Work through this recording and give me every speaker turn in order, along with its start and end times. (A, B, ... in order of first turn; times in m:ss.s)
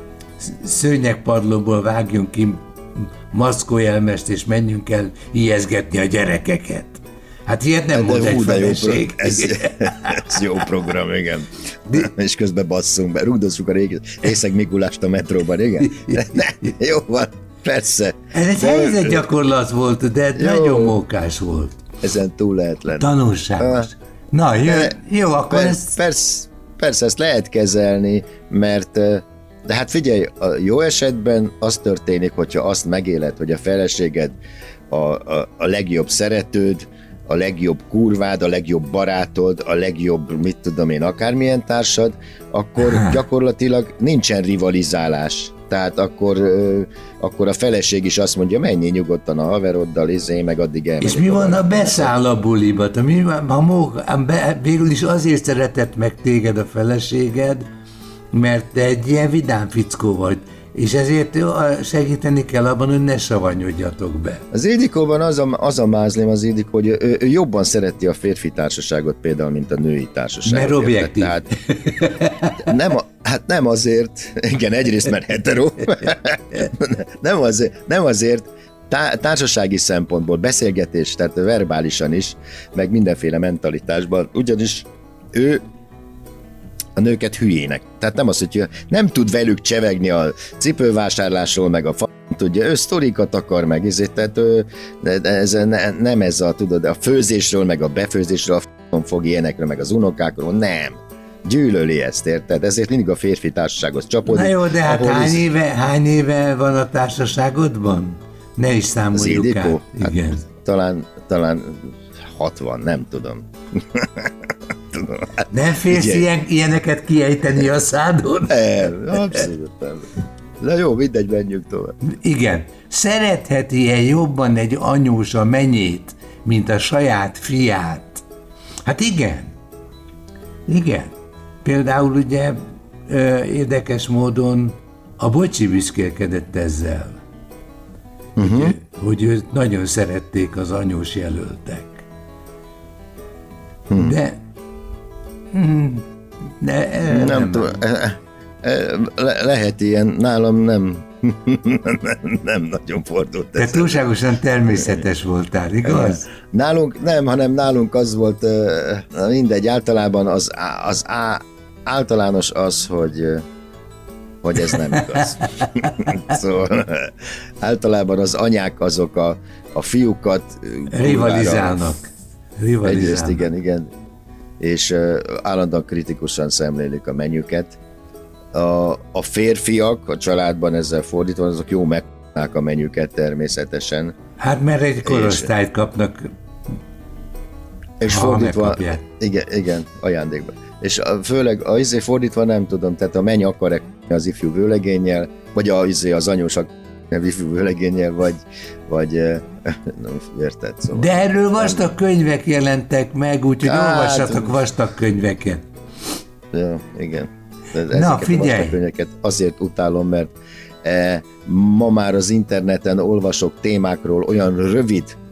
0:00.4-0:10.4 A
0:07.9-0:19.3 B
0:15.9-0:16.2 A
0:18.3-0:21.8 A
0:20.4-0:21.0 B
0:22.0-0:23.9 B
0:23.0-0:26.0 A
0:24.6-0:25.0 B
0:25.5-0:34.4 B
0:34.9-0:52.2 B
0:42.8-0:43.2 A
0:51.0-0:57.6 A
0:58.3-1:04.4 A
1:04.5-1:11.5 B
1:10.4-1:12.6 A
1:12.6-1:25.6 B
1:27.0-1:45.5 B
1:44.3-1:50.4 A
1:49.1-1:54.3 B
1:54.9-1:56.3 B
1:55.5-1:59.4 A
1:58.5-2:02.0 B
2:02.0-2:08.2 A
2:08.9-2:09.5 A
2:10.7-2:11.1 A
2:11.6-2:17.2 A
2:18.4-2:18.8 B
2:18.4-2:22.0 A
2:23.9-2:24.2 B
2:24.0-2:24.4 A
2:25.5-2:26.0 A
2:26.6-2:27.8 A
2:27.1-2:34.1 B
2:33.6-2:36.3 A
2:34.7-2:35.0 B
2:35.8-2:43.4 B
2:44.4-2:51.8 B
2:44.7-2:46.0 A
2:50.9-2:53.4 A
2:52.8-2:53.9 B
2:54.6-2:57.8 B
2:58.5-3:04.1 B
3:04.4-3:06.3 A
3:05.0-3:05.5 B
3:08.0-3:21.9 B
3:08.0-3:09.0 A
3:20.9-3:25.6 A
3:23.6-3:24.6 B
3:26.5-3:35.2 B
3:27.9-3:28.8 A